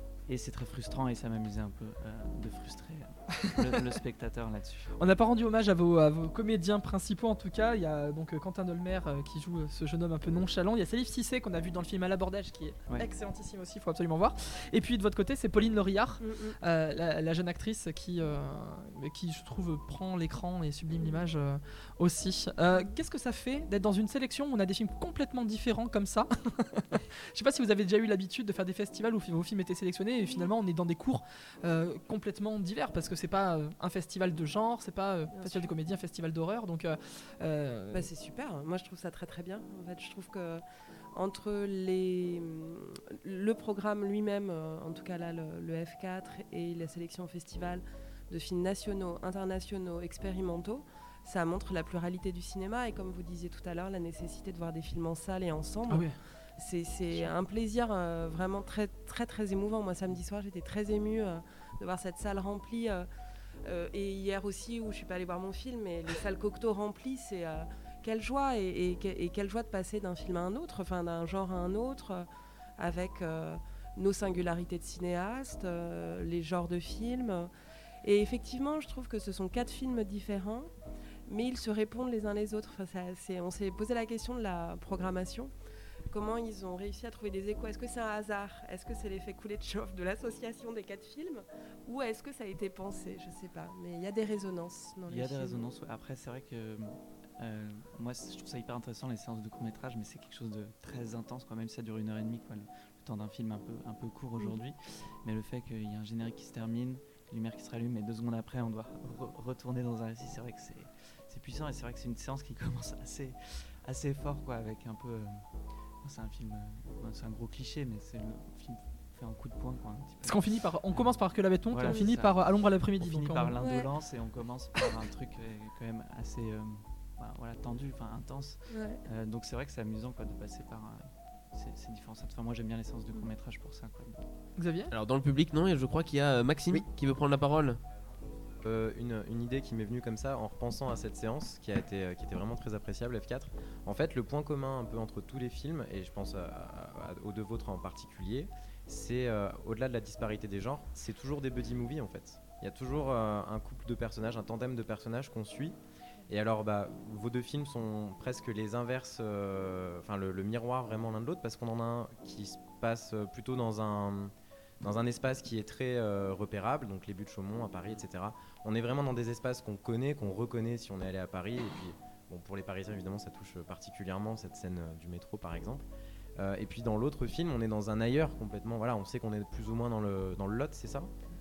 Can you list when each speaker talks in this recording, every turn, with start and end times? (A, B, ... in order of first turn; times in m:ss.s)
0:00.3-0:05.0 A
0:05.0-0:38.1 B
0:16.2-0:16.6 C
0:30.2-0:30.5 C
0:35.3-0:35.7 C
0:37.9-1:03.1 C
0:55.9-0:56.2 B
1:03.6-1:12.3 C
1:12.8-1:17.5 C
1:18.0-1:20.7 C
1:21.3-1:25.5 C
1:26.1-1:35.7 C
1:35.1-2:14.2 A
2:00.2-2:03.6 B
2:01.8-2:02.2 C
2:03.6-2:03.9 C
2:08.7-2:09.0 C
2:14.6-2:14.9 B
2:14.9-2:17.8 D
2:18.6-2:35.8 E
2:36.3-3:01.1 E